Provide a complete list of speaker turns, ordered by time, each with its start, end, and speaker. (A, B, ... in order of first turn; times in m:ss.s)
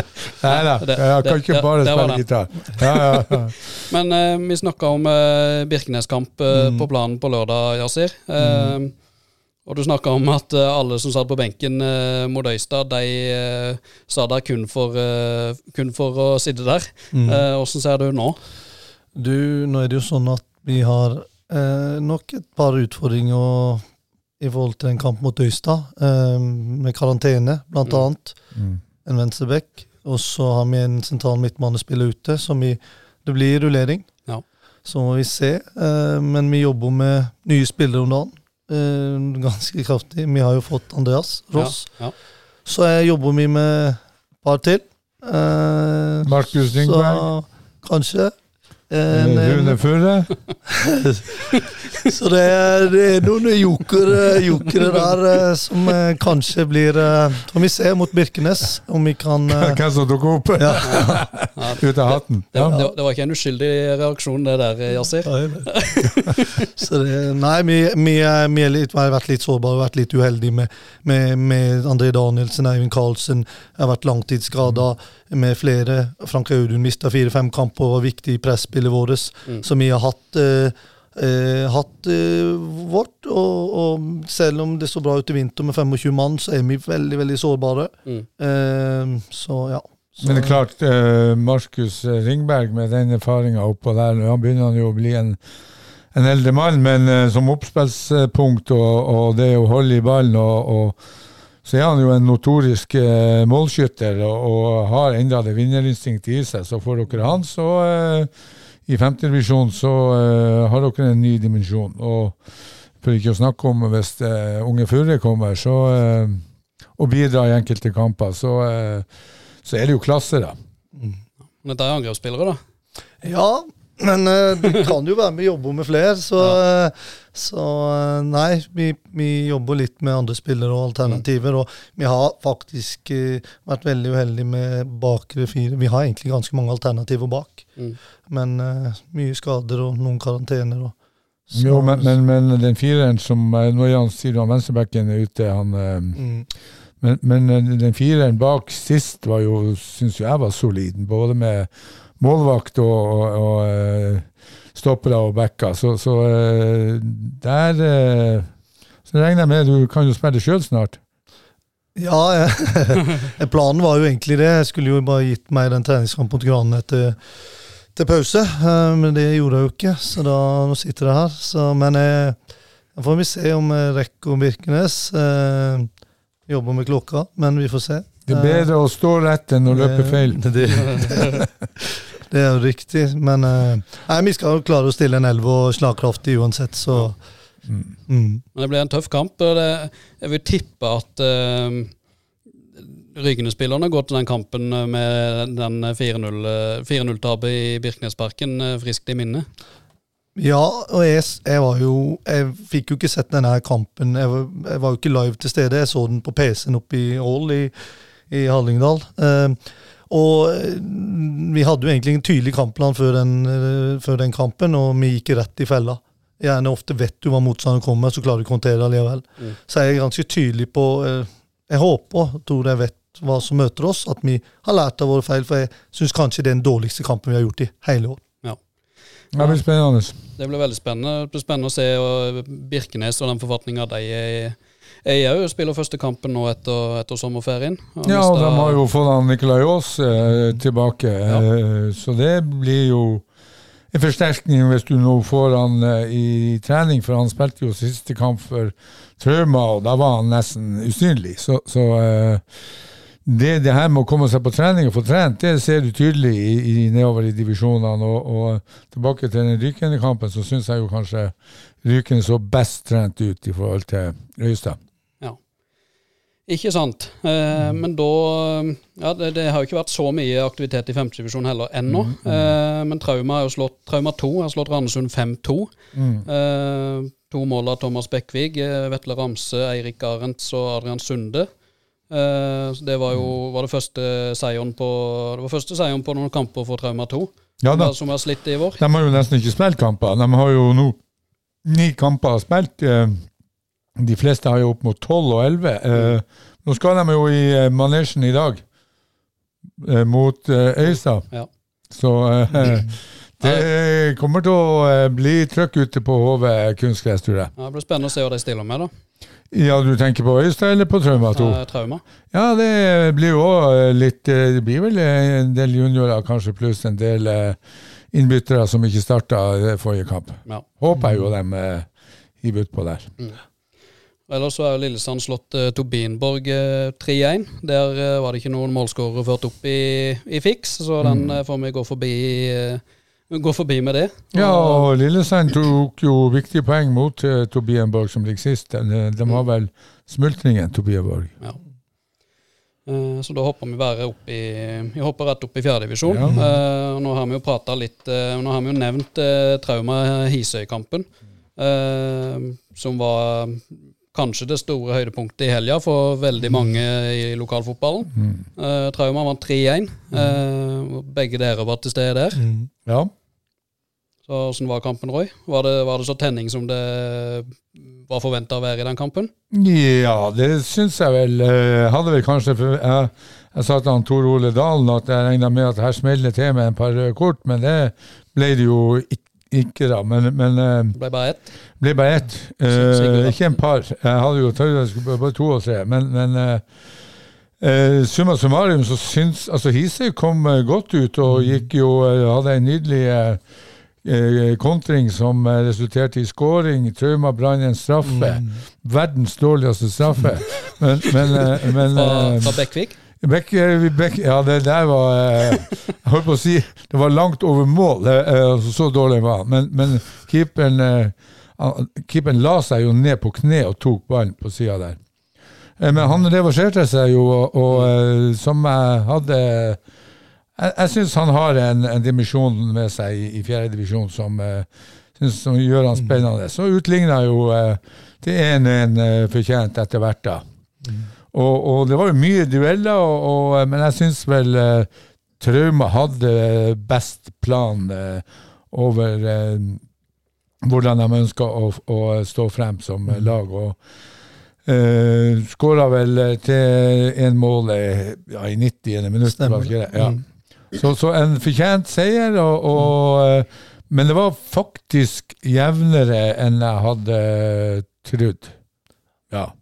0:00.4-0:03.7 A
0:00.4-0:03.4 B
0:03.9-0:08.9 B
0:06.5-0:06.8 C
0:08.4-0:08.8 C
0:09.6-0:18.4 B
0:17.1-0:17.4 C
0:19.2-0:23.8 C
0:24.4-0:28.4 C
0:29.0-0:34.1 C
0:34.8-0:42.0 C
0:41.6-0:42.1 B
0:42.7-0:48.3 C
0:46.2-0:47.3 A
0:48.9-0:49.8 C
0:49.1-0:50.3 A
0:50.7-0:59.8 C
0:59.5-1:02.8 A
1:00.6-1:01.2 C
1:00.8-1:06.7 B
1:05.2-1:05.7 C
1:06.8-1:30.6 C
1:30.2-1:35.4 A
1:36.1-1:41.0 A
1:41.6-1:48.3 A
1:48.9-1:52.4 A
1:53.0-1:56.4 A
1:57.0-1:59.1 A
1:59.6-2:00.6 A
2:01.6-2:02.6 B
2:03.2-2:17.8 C
2:18.3-2:20.9 C
2:21.5-2:22.1 C
2:21.5-2:26.2 A
2:26.2-2:26.5 C
2:27.0-2:31.7 A
2:32.2-2:38.5 A
2:39.1-2:41.0 A
2:42.0-2:47.2 C
2:48.0-2:52.4 C
2:53.0-2:55.9 C
2:56.5-2:58.7 C
2:58.3-3:01.1 A
2:59.7-3:07.2 C
3:00.7-3:01.4 B
3:08.1-3:08.4 C
3:08.6-3:11.9 B
3:12.8-3:19.5 B
3:20.4-3:27.7 C
3:28.3-3:29.6 C
3:30.1-3:48.2 C
3:49.3-3:50.2 A
3:50.4-3:58.8 B
3:58.0-4:03.2 A
4:03.9-4:12.4 A
4:13.2-4:24.8 A
4:26.5-4:35.7 B
4:31.9-4:32.5 A
4:36.0-4:36.3 A
4:36.2-4:41.5 B
4:42.1-4:48.8 B
4:47.6-4:48.0 A
4:48.8-4:51.0 A
4:51.6-4:53.2 A
4:54.0-4:58.6 A
4:59.8-5:01.3 A
5:01.9-5:07.5 A
5:07.6-5:08.9 B
5:09.5-5:11.6 A
5:11.3-5:12.0 B
5:12.3-5:17.6 A
5:18.1-5:21.9 A
5:21.0-5:21.2 C
5:22.4-5:23.1 A
5:24.3-5:34.9 B
5:31.0-5:31.4 A
5:34.3-5:41.3 A
5:42.9-6:02.4 B
5:46.1-5:46.4 A
5:46.3-5:46.6 C
5:58.2-5:58.4 A
6:02.4-6:02.7 C
6:02.9-6:03.1 A
6:04.3-6:09.3 B
6:09.5-6:21.0 A
6:21.0-6:21.5 B
6:21.8-6:26.6 A
6:22.7-6:23.6 B
6:27.6-6:33.4 A
6:31.3-6:31.6 C
6:34.0-6:42.6 A
6:38.0-6:38.6 C
6:41.9-6:43.0 B
6:43.2-6:55.0 A
6:55.8-6:59.8 A
7:00.6-7:10.4 A
7:06.0-7:06.2 C
7:10.8-7:11.1 C
7:11.3-7:14.9 A
7:15.4-7:19.8 A
7:20.6-7:23.8 A
7:24.6-7:30.2 A
7:29.2-7:30.2 C
7:30.7-7:38.6 A